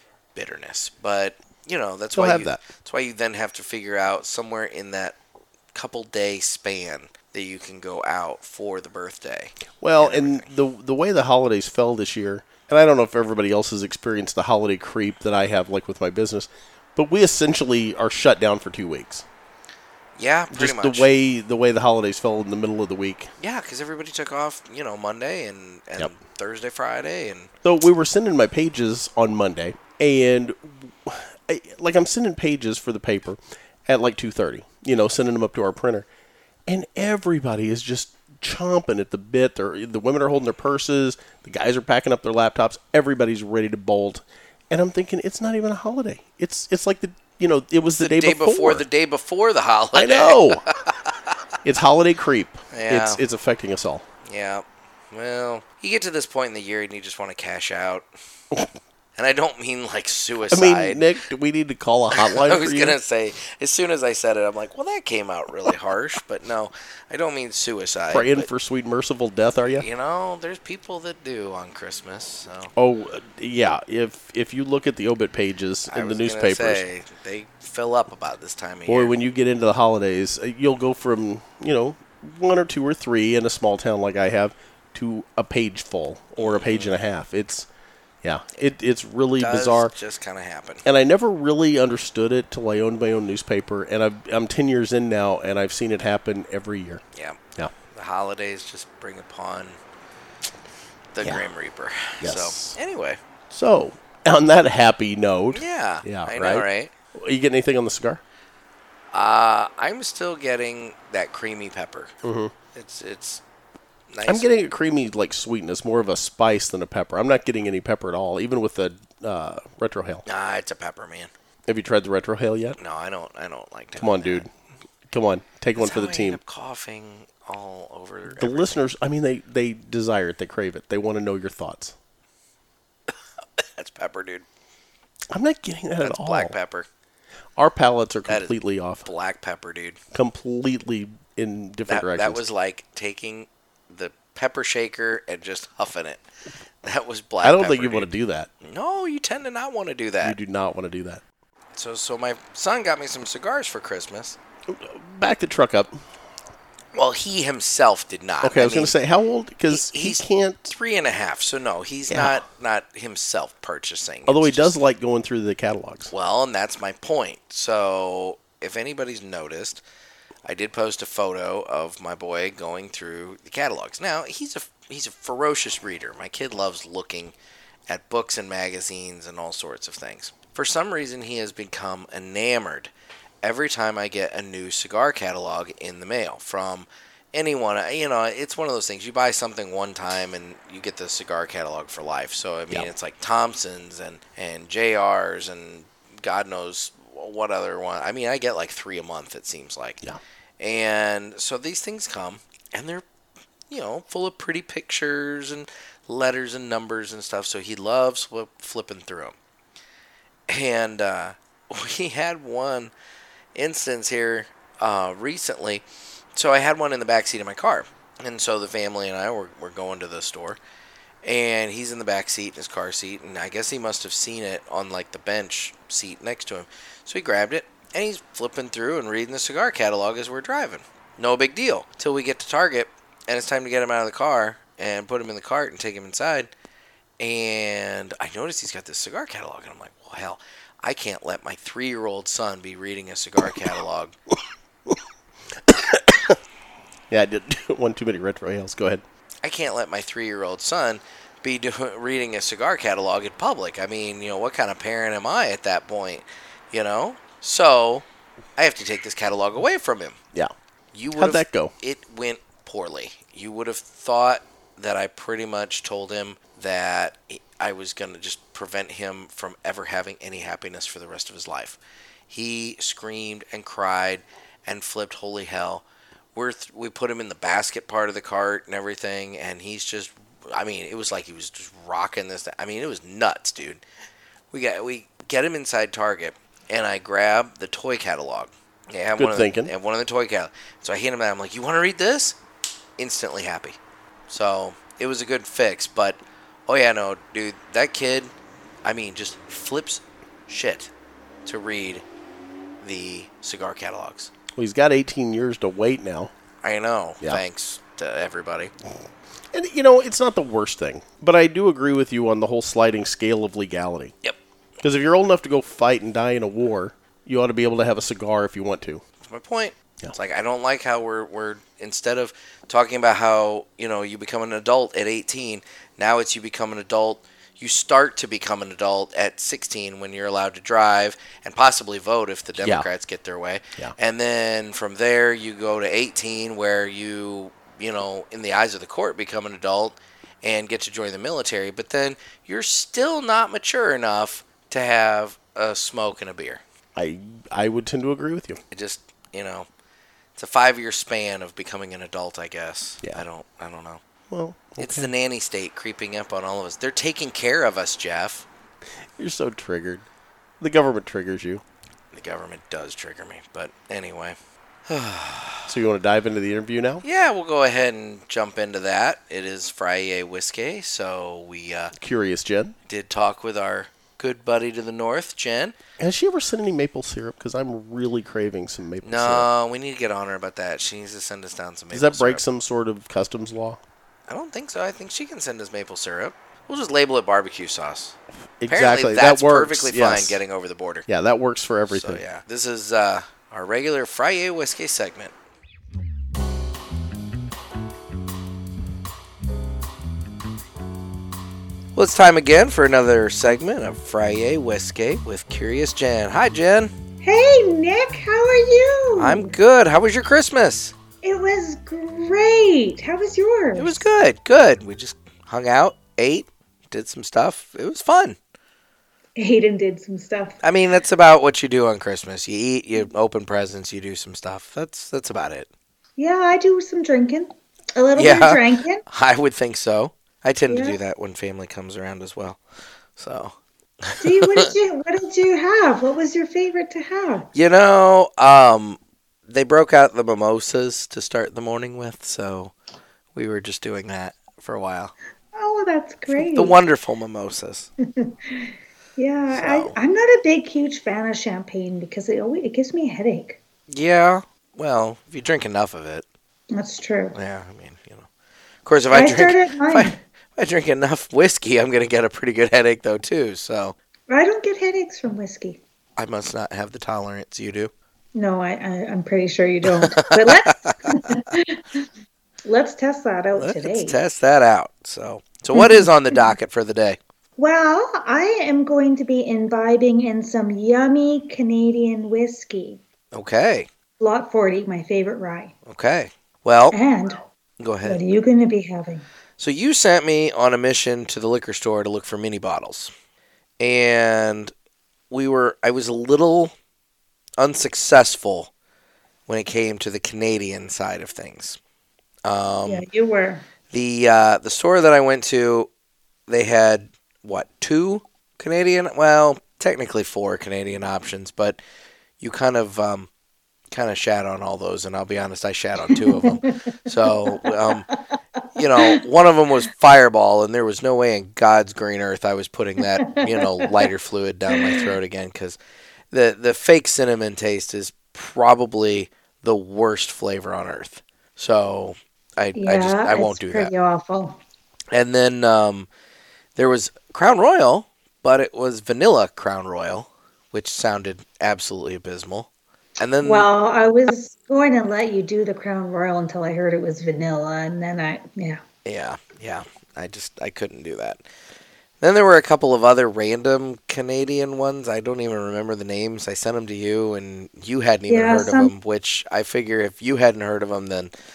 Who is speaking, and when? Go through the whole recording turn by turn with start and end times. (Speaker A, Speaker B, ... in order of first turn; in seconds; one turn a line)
Speaker A: 0.3-5.2
Speaker B: 2.1-2.6
Speaker A: 5.7-10.5
Speaker B: 9.8-19.2
Speaker A: 20.2-21.1
Speaker B: 20.5-23.3
Speaker A: 23.4-27.5
Speaker B: 27.6-36.1
Speaker B: 36.7-48.9
Speaker A: 48.0-51.4
Speaker B: 50.0-50.6
Speaker B: 51.6-54.0
Speaker A: 52.7-53.2
Speaker A: 54.2-58.1
Speaker A: 59.2-61.1
Speaker B: 60.5-63.0
Speaker A: 62.2-68.5
Speaker B: 68.1-69.9
Speaker A: 69.8-72.7
Speaker B: 72.8-76.8
Speaker A: 75.9-79.2
Speaker B: 78.9-87.7
Speaker A: 86.4-87.0
Speaker B: 88.2-89.9
Speaker A: 89.4-90.8
Speaker B: 90.8-97.0
Speaker A: 97.9-99.8
Speaker A: 101.1-103.2
Speaker B: 102.2-102.8
Speaker B: 103.5-108.2
Speaker A: 105.5-106.9
Speaker A: 109.1-112.1
Speaker B: 112.2-112.5
Speaker A: 112.7-113.4
Speaker A: 114.1-114.5
Speaker B: 114.2-120.2
Speaker A: 120.2-121.3
Speaker B: 121.7-122.8
Speaker A: 122.8-124.5
Speaker B: 124.0-124.5
Speaker B: 125.1-126.4
Speaker A: 125.8-128.8
Speaker B: 128.3-131.9
Speaker A: 133.6-134.4
Speaker B: 135.3-136.6
Speaker A: 136.0-136.9
Speaker B: 137.6-139.0
Speaker A: 138.3-138.5
Speaker A: 139.0-140.0
Speaker B: 140.1-142.5
Speaker A: 141.9-146.2
Speaker A: 146.8-150.4
Speaker B: 147.4-148.5
Speaker B: 150.2-151.2
Speaker A: 151.8-154.4
Speaker B: 154.7-156.0
Speaker A: 156.9-159.0
Speaker B: 158.4-160.7
Speaker A: 159.7-164.8
Speaker B: 162.1-162.4
Speaker B: 164.3-166.1
Speaker A: 166.1-169.8
Speaker A: 170.5-177.3
Speaker A: 177.9-182.9
Speaker A: 183.4-200.0
Speaker A: 200.6-203.1
Speaker A: 203.7-209.4
Speaker A: 210.5-212.9
Speaker A: 213.6-215.8
Speaker A: 216.3-220.6
Speaker A: 221.2-236.5
Speaker A: 237.2-244.2
Speaker B: 243.5-243.7
Speaker B: 245.7-246.4
Speaker B: 247.1-249.0
Speaker A: 249.4-258.1
Speaker A: 258.6-260.2
Speaker A: 260.9-283.8
Speaker B: 261.1-261.7
Speaker A: 284.5-292.4
Speaker B: 289.2-289.7
Speaker A: 293.0-293.8
Speaker A: 294.3-298.3
Speaker A: 298.9-300.9
Speaker A: 301.4-302.1
Speaker A: 302.8-304.3
Speaker B: 304.5-306.3
Speaker A: 306.6-308.7
Speaker B: 309.5-314.1
Speaker B: 314.8-319.0
Speaker A: 319.2-346.6
Speaker B: 332.6-332.9
Speaker B: 347.0-348.6
Speaker A: 348.7-349.7
Speaker A: 350.4-354.0
Speaker B: 354.3-355.1
Speaker A: 354.8-358.5
Speaker B: 359.2-360.1
Speaker B: 360.6-361.6
Speaker A: 362.1-364.4
Speaker A: 364.9-365.7
Speaker B: 365.7-367.0
Speaker A: 367.0-371.9
Speaker B: 371.9-372.8
Speaker A: 372.9-375.8
Speaker B: 376.0-379.5
Speaker A: 379.0-382.4
Speaker B: 381.9-383.8
Speaker A: 384.3-388.2
Speaker B: 388.6-390.4
Speaker A: 388.7-391.1
Speaker B: 391.1-392.2
Speaker A: 391.9-395.3
Speaker A: 401.9-406.9
Speaker C: 407.2-409.6
Speaker A: 409.2-410.9
Speaker C: 411.2-414.1
Speaker A: 413.8-418.4
Speaker C: 419.4-420.6
Speaker A: 420.6-425.7
Speaker C: 426.2-429.0
Speaker A: 428.1-432.6
Speaker C: 430.7-431.0
Speaker A: 433.2-434.7
Speaker C: 434.2-437.5
Speaker A: 437.5-442.7
Speaker A: 443.4-445.1
Speaker C: 445.6-446.8
Speaker A: 446.3-447.9
Speaker C: 448.1-453.6
Speaker A: 449.5-449.9
Speaker A: 453.9-456.2
Speaker C: 456.7-457.4
Speaker A: 457.3-458.3
Speaker A: 458.9-463.9
Speaker C: 459.1-460.2
Speaker C: 464.3-465.8
Speaker A: 466.2-467.9
Speaker C: 468.4-472.1
Speaker A: 469.9-471.5
Speaker C: 472.6-474.2
Speaker A: 473.6-477.2
Speaker C: 475.7-476.5
Speaker C: 477.6-483.0
Speaker A: 483.3-483.9
Speaker C: 484.2-485.7
Speaker A: 485.9-487.0
Speaker C: 486.9-487.4
Speaker A: 487.8-488.2
Speaker C: 488.0-489.3
Speaker A: 489.6-493.1
Speaker A: 493.8-494.7
Speaker A: 495.3-496.7
Speaker A: 497.6-498.7
Speaker A: 499.5-501.8
Speaker A: 502.4-503.1
Speaker C: 502.9-503.7
Speaker A: 503.9-505.9
Speaker A: 506.5-511.8
Speaker A: 512.4-513.3
Speaker A: 513.9-518.1
Speaker C: 516.1-518.2
Speaker A: 518.8-525.8
Speaker C: 523.0-524.1
Speaker C: 524.7-525.1
Speaker A: 526.3-533.9
Speaker C: 532.8-534.6
Speaker A: 535.1-536.1
Speaker A: 536.8-543.7
Speaker C: 543.4-548.8
Speaker A: 549.0-551.4
Speaker A: 552.2-561.3
Speaker C: 558.3-558.9